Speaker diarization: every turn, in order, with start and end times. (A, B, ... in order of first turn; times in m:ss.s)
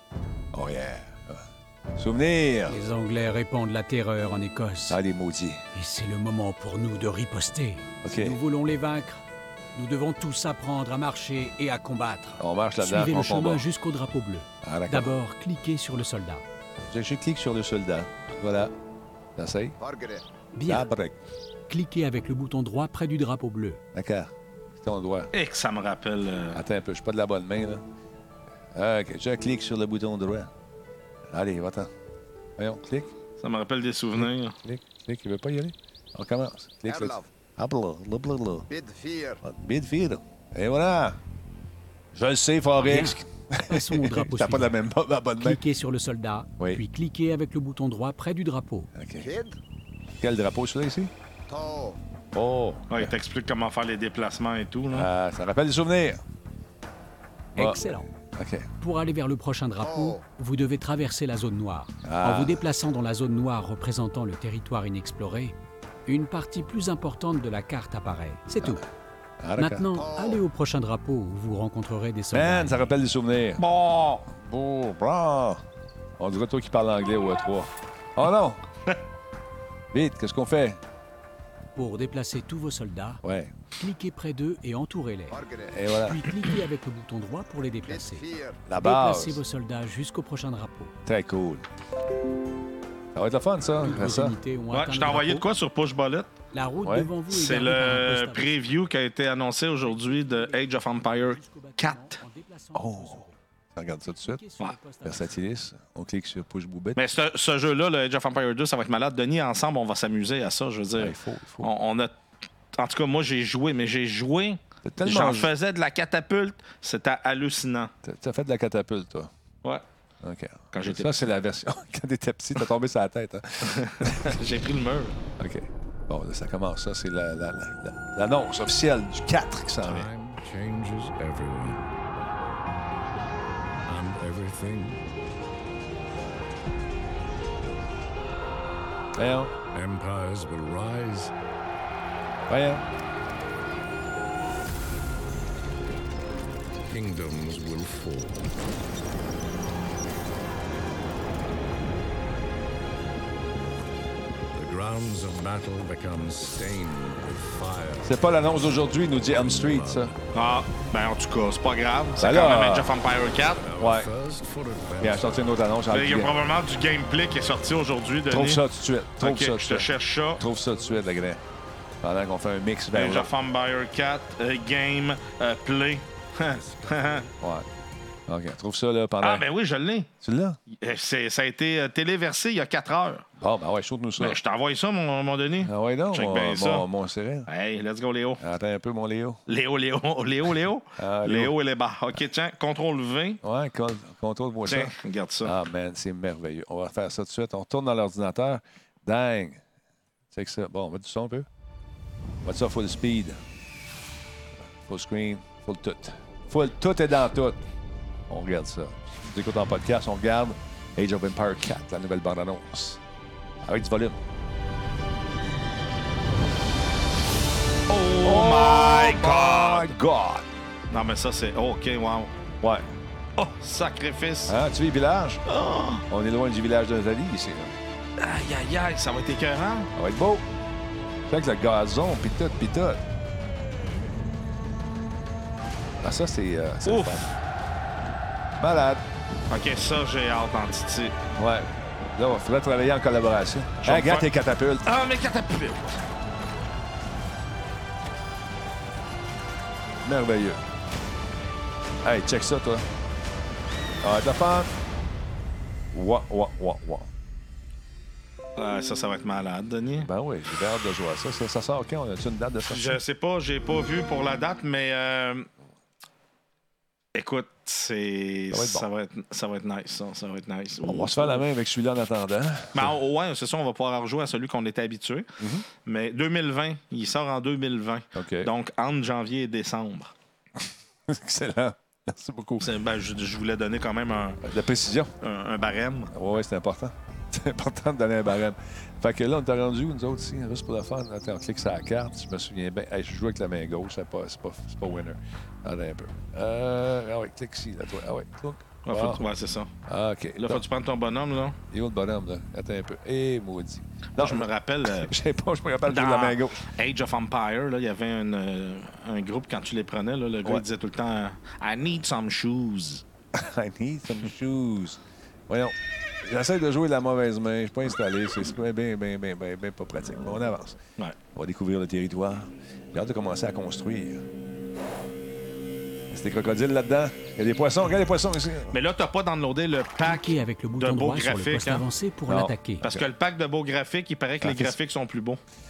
0:00.5-0:01.4 A
0:01.9-0:02.8 A
0:02.7-0:05.0 B
0:04.9-0:05.6 A
0:05.7-0:09.2 B
0:08.0-0:08.4 A
0:09.7-0:16.4 B
0:12.4-0:13.7 A
0:14.6-0:15.2 A
0:16.9-0:18.7 A
0:19.4-0:19.8 A
0:19.8-0:20.2 C
0:20.5-0:20.9 B
0:20.6-0:21.2 A
0:21.7-0:23.8 B
0:23.9-0:25.3 A
0:25.3-0:26.6 D
0:26.5-0:27.8 A
0:28.7-0:30.5 A
0:31.3-0:31.9 A
0:32.6-0:33.1 A
0:33.4-0:34.6 D
0:34.2-0:38.7 A
0:36.9-0:37.3 C
0:38.7-0:39.4 C
0:39.4-0:41.2 A
0:42.1-0:45.6 A
0:42.8-0:44.7 B
0:45.4-0:48.9 B
0:48.9-0:49.3 A
0:49.2-0:49.6 C
0:50.2-0:51.1 A
0:51.5-0:52.0 C
0:52.3-0:53.1 A
0:52.9-0:55.1 D
0:54.9-0:56.2 A
0:57.5-0:58.7 A
0:57.6-0:58.1 B
0:58.8-1:05.5 B
0:59.8-1:00.2 C
1:02.0-1:02.6 A
1:06.0-1:08.8 B
1:09.4-1:09.9 A
1:09.6-1:12.8 B
1:09.9-1:10.4 C
1:12.3-1:13.6 A
1:13.6-1:14.3 D
1:14.3-1:15.6 A
1:16.2-1:18.6 A
1:19.9-1:20.8 A
1:21.7-1:23.2 B
1:23.2-1:23.5 A
1:23.8-1:25.4 B
1:25.3-1:25.8 C
1:25.7-1:26.3 A
1:25.9-1:30.9 B
1:27.8-1:28.6 C
1:28.6-1:29.4 A
1:31.0-1:31.6 A
1:33.1-1:34.4 A
1:33.8-1:35.5 B
1:34.7-1:36.3 D
1:36.5-1:38.7 B
1:36.8-1:37.1 A
1:37.3-1:42.2 D
1:39.8-1:43.4 B
1:42.7-1:44.4 A
1:44.1-1:45.4 B
1:45.0-1:47.0 A
1:46.9-1:52.1 D
1:51.0-1:51.7 A
1:52.8-1:57.9 D
1:54.8-1:55.5 A
1:58.0-1:59.3 A
2:00.2-2:04.4 A
2:00.7-2:01.2 D
2:03.7-2:05.2 D
2:05.4-2:10.1 A
2:09.8-2:11.9 E
2:13.8-2:15.0 E
2:19.2-2:19.5 A
2:19.7-2:21.3 E
2:22.5-2:22.8 A
2:26.8-2:28.5 E
2:34.5-2:38.1 E
2:38.0-2:40.1 A
2:39.2-2:40.2 E
2:40.3-2:43.6 D
2:42.2-2:42.9 A
2:43.4-2:45.5 E
2:43.8-2:44.1 A
2:45.0-2:46.4 A
2:45.9-2:48.6 D
2:48.3-2:51.4 A
2:49.2-2:50.4 D
2:50.8-2:51.0 E
2:52.0-2:53.3 A
2:52.9-2:57.3 D
2:56.4-2:57.3 E
2:57.4-2:57.7 A
2:58.3-2:59.4 A
2:59.2-3:00.1 D
3:00.2-3:00.6 A
3:00.7-3:03.2 D
3:03.4-3:04.4 A
3:04.2-3:06.9 D
3:05.6-3:07.5 A
3:07.5-3:08.4 D
3:08.4-3:09.4 A
3:09.5-3:13.4 D
3:11.0-3:11.5 A
3:13.4-3:19.6 A
3:14.7-3:15.6 D
3:20.3-3:21.5 A
3:22.4-3:23.4 A
3:24.6-3:27.6 A
3:28.3-3:33.0 A
3:33.6-3:34.2 A
3:37.9-3:39.9 D
3:38.2-3:40.5 A
3:40.9-3:42.3 D
3:42.6-3:42.9 A
3:43.4-3:44.5 D
3:44.5-3:45.4 A
3:45.4-3:46.0 D
3:46.1-3:47.8 A
3:48.2-3:49.9 D
3:50.0-3:50.4 A
3:51.3-3:53.0 A
3:56.0-3:57.3 A
3:56.8-3:57.2 D
3:58.6-3:59.0 A
3:59.5-4:01.2 D
4:01.3-4:04.9 A
4:03.8-4:04.3 D
4:04.8-4:06.0 D
4:10.0-4:10.6 A
4:12.0-4:12.9 A
4:14.0-4:14.7 A
4:15.9-4:17.1 A
4:18.6-4:20.1 D
4:20.0-4:23.0 A
4:22.6-4:25.5 D
4:27.1-4:31.4 D
4:28.5-4:28.9 A
4:30.8-4:32.9 A
4:32.7-4:35.3 D
4:35.4-4:35.7 A
4:35.8-4:40.1 D
4:38.1-4:38.5 A
4:41.1-4:42.7 A
4:42.6-4:44.4 D
4:44.4-4:45.1 A
4:45.2-4:46.1 D
4:46.1-4:59.2 A
4:58.8-4:59.7 D
4:59.9-5:00.6 A
5:00.4-5:01.6 D
5:01.7-5:06.6 A
5:04.2-5:05.1 D
5:05.8-5:13.0 D
5:13.3-5:20.8 A
5:21.3-5:24.2 A
5:26.1-5:28.8 A
5:28.7-5:31.8 D
5:30.0-5:32.8 B
5:32.3-5:33.1 A
5:32.8-5:35.4 D
5:34.4-5:34.8 A